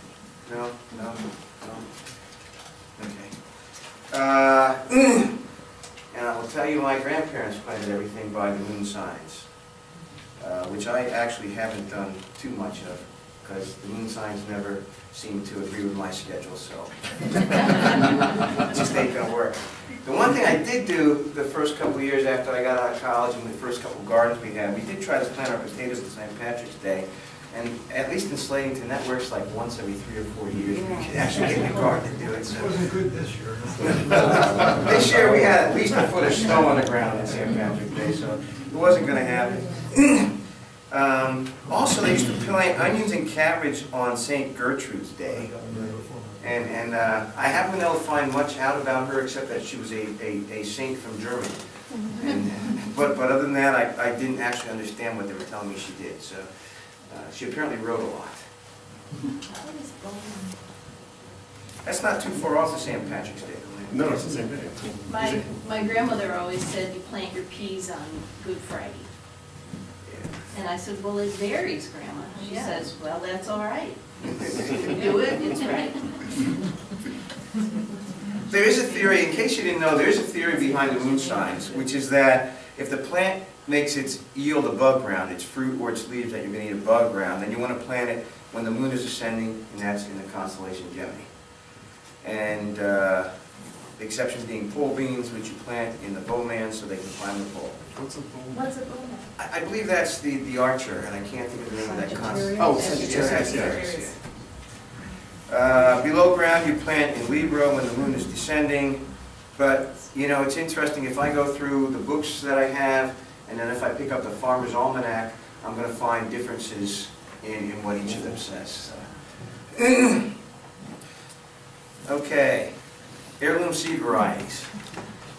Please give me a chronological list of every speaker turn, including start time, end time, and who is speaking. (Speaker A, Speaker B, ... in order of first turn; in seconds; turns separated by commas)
Speaker A: 0.4-5.4, Speaker A: 6.1-9.6, Speaker A: 10.4-17.9, Speaker A: 18.6-33.0, Speaker B: 32.4-37.5, Speaker A: 33.8-45.9, Speaker B: 45.2-46.9, Speaker A: 46.4-58.5, Speaker C: 59.5-60.6, Speaker A: 61.8-64.2, Speaker D: 63.9-65.5, Speaker E: 65.1-69.1, Speaker A: 70.1-70.3, Speaker E: 70.5-76.4, Speaker C: 72.3-72.8, Speaker A: 78.5-91.5, Speaker A: 92.2-93.4, Speaker A: 93.9-97.8, Speaker D: 97.9-98.7, Speaker C: 98.5-99.3, Speaker A: 99.4-104.9, Speaker E: 101.9-104.0, Speaker D: 102.6-103.9, Speaker A: 105.4-120.3, Speaker A: 122.0-122.8, Speaker A: 123.4-124.8